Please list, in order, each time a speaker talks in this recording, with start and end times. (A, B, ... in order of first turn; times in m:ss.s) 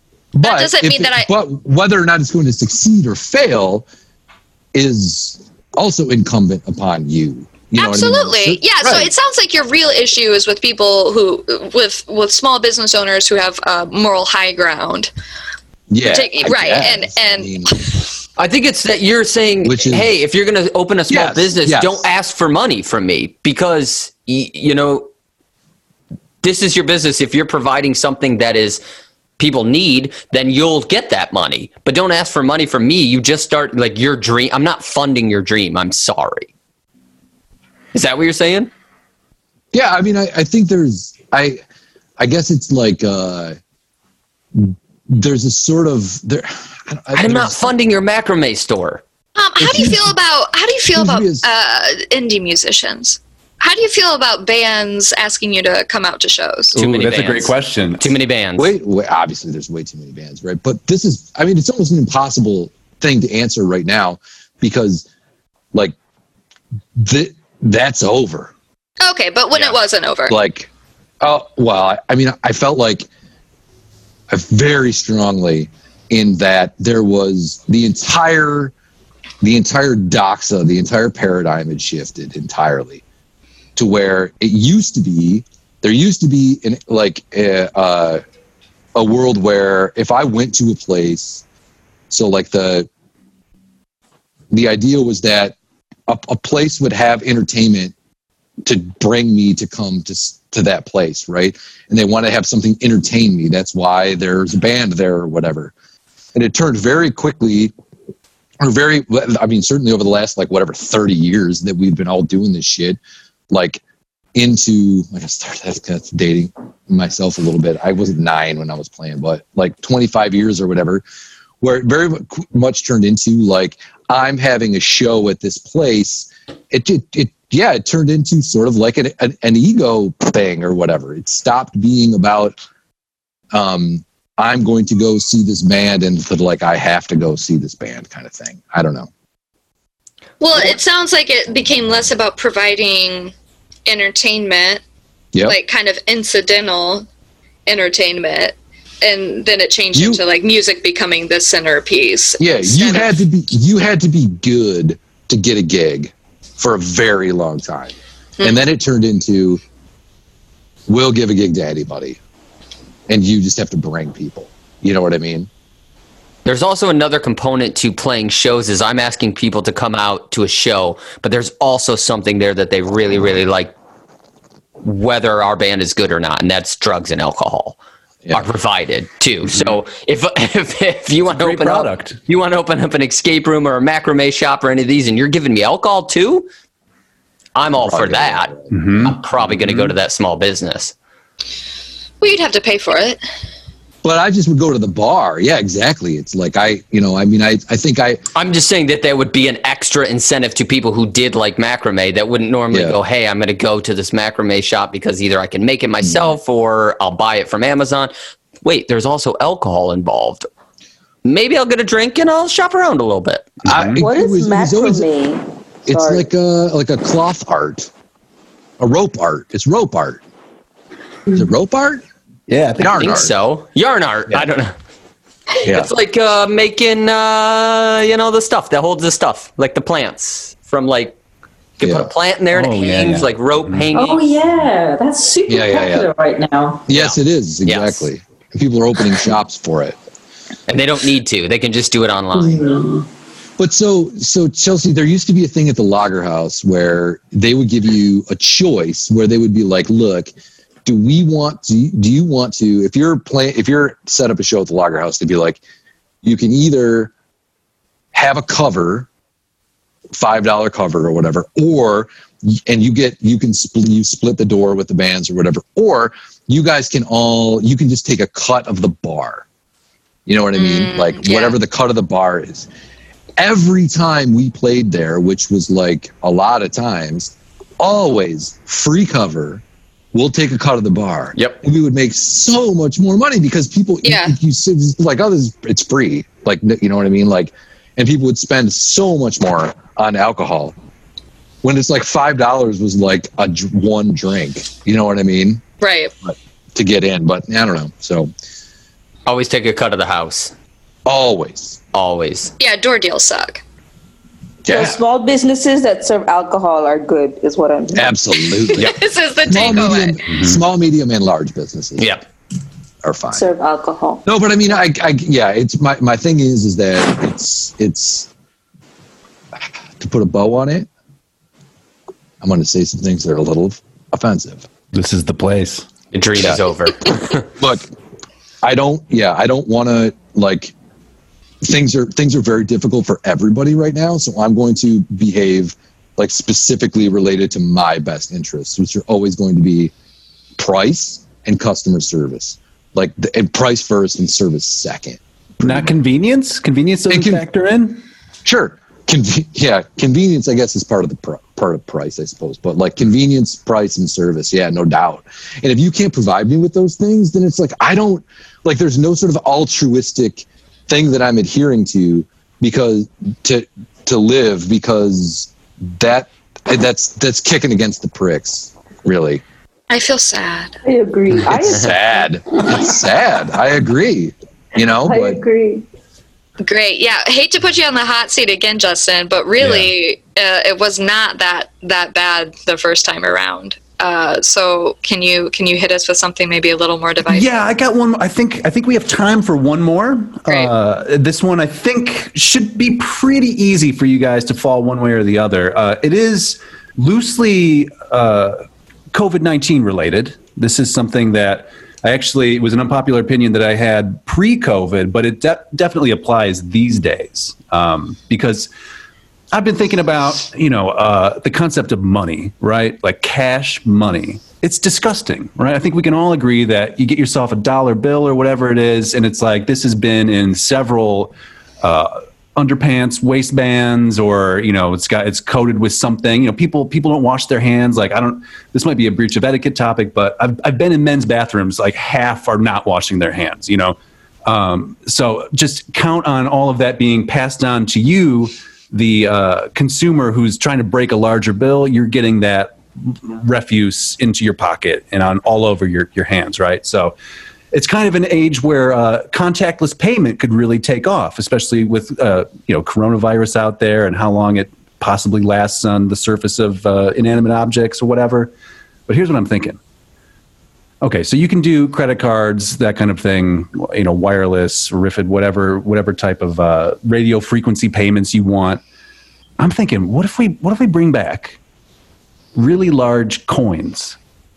0:00.3-0:03.9 A
0:00.4-0:01.3 B
0:04.7-0:09.1 A
0:07.8-0:15.1 B
0:15.9-0:17.8 A
0:16.0-0:18.0 B
0:18.4-0:25.1 C
0:19.6-0:20.1 A
0:21.1-0:22.1 A
0:26.4-0:28.8 C
0:29.4-0:36.5 C
0:37.9-0:38.7 C
0:39.7-0:41.6 A
0:42.2-0:43.6 A
0:44.5-0:47.8 A
0:47.1-0:49.0 C
0:49.4-0:56.8 B
0:49.6-0:50.1 A
0:50.9-0:51.5 A
0:56.7-0:58.1 D
0:56.8-0:58.7 C
0:58.6-1:05.0 A
1:07.0-1:08.5 A
1:09.0-1:10.4 B
1:10.3-1:10.7 A
1:11.2-1:13.1 A
1:14.3-1:18.7 A
1:19.4-1:23.0 A
1:23.8-1:28.2 A
1:28.9-1:31.4 A
1:32.1-1:32.9 A
1:34.5-1:35.5 A
1:36.1-1:37.9 A
1:38.6-1:45.7 A
1:46.3-1:47.7 A
1:48.6-1:53.0 A
1:53.5-1:53.8 A
1:54.3-2:01.0 A
2:01.6-2:12.6 A
2:13.5-2:19.1 A
2:20.4-2:23.3 B
2:23.8-2:24.8 B
2:25.4-2:27.1 B
2:27.6-2:33.2 B
2:29.9-2:30.2 A
2:32.4-2:39.6 A
2:40.9-2:42.2 A
2:43.1-2:45.5 A
2:46.4-2:53.7 C
2:54.8-2:57.8 C
2:58.3-3:06.5 C
2:59.5-2:59.8 D
3:01.3-3:02.2 D
3:07.5-3:10.9 C
3:07.8-3:08.7 A
3:08.7-3:09.9 D
3:12.2-3:13.2 B
3:14.0-3:18.2 A
3:18.3-3:28.1 C
3:22.7-3:23.0 A
3:28.6-3:30.5 C
3:31.2-3:33.6 C
3:33.6-3:34.0 D
3:33.6-3:35.1 A
3:34.0-3:36.3 E
3:35.8-3:37.9 A
3:38.8-3:40.2 A
3:41.3-3:42.0 A
3:42.5-3:43.2 D
3:42.8-3:43.3 A
3:43.0-3:44.7 C
3:45.6-3:51.2 C
3:45.6-3:45.9 A
3:51.8-3:54.3 C
3:51.8-3:52.1 A
3:52.5-3:53.9 D
3:53.9-3:56.8 F
3:55.5-3:56.1 A
3:56.9-4:00.0 A
3:56.9-3:58.0 C
4:00.7-4:02.8 C
4:02.3-4:03.0 F
4:03.6-4:10.3 A
4:10.8-4:15.6 A
4:16.2-4:17.1 A
4:18.1-4:19.1 A
4:20.1-4:29.4 A
4:30.2-4:32.7 A
4:30.5-4:31.6 B
4:33.4-4:50.8 A
4:44.0-4:44.3 B
4:51.6-4:55.6 A
4:55.8-4:56.1 B
4:56.2-4:58.3 A
4:59.2-5:00.5 C
5:01.0-5:01.8 A
5:01.9-5:02.5 C
5:02.6-5:03.6 B
5:04.6-5:05.0 A
5:04.7-5:08.6 E
5:07.9-5:12.2 A
5:08.7-5:10.2 B
5:10.2-5:10.6 D
5:12.0-5:12.2 C
5:13.0-5:13.4 A
5:13.3-5:14.2 E
5:14.2-5:18.3 A
5:20.0-5:20.9 A
5:22.4-5:24.7 A
5:24.9-5:25.9 D
5:26.1-5:27.5 C
5:27.6-5:27.9 A
5:28.6-5:30.7 A
5:31.6-5:39.9 A
5:40.6-5:45.9 A
5:45.6-5:48.0 D
5:47.1-5:47.4 A
5:48.4-6:09.4 A
6:09.9-6:10.8 B
6:10.8-6:12.3 E
6:11.4-6:15.4 A
6:15.0-6:15.8 E
6:16.6-6:27.6 B
6:19.6-6:19.9 D
6:27.2-6:48.7 D
6:49.5-7:27.1 D
7:27.7-7:38.5 D
7:39.1-7:39.8 D
7:41.0-7:48.8 D
7:49.6-7:51.6 D
7:52.5-7:54.2 D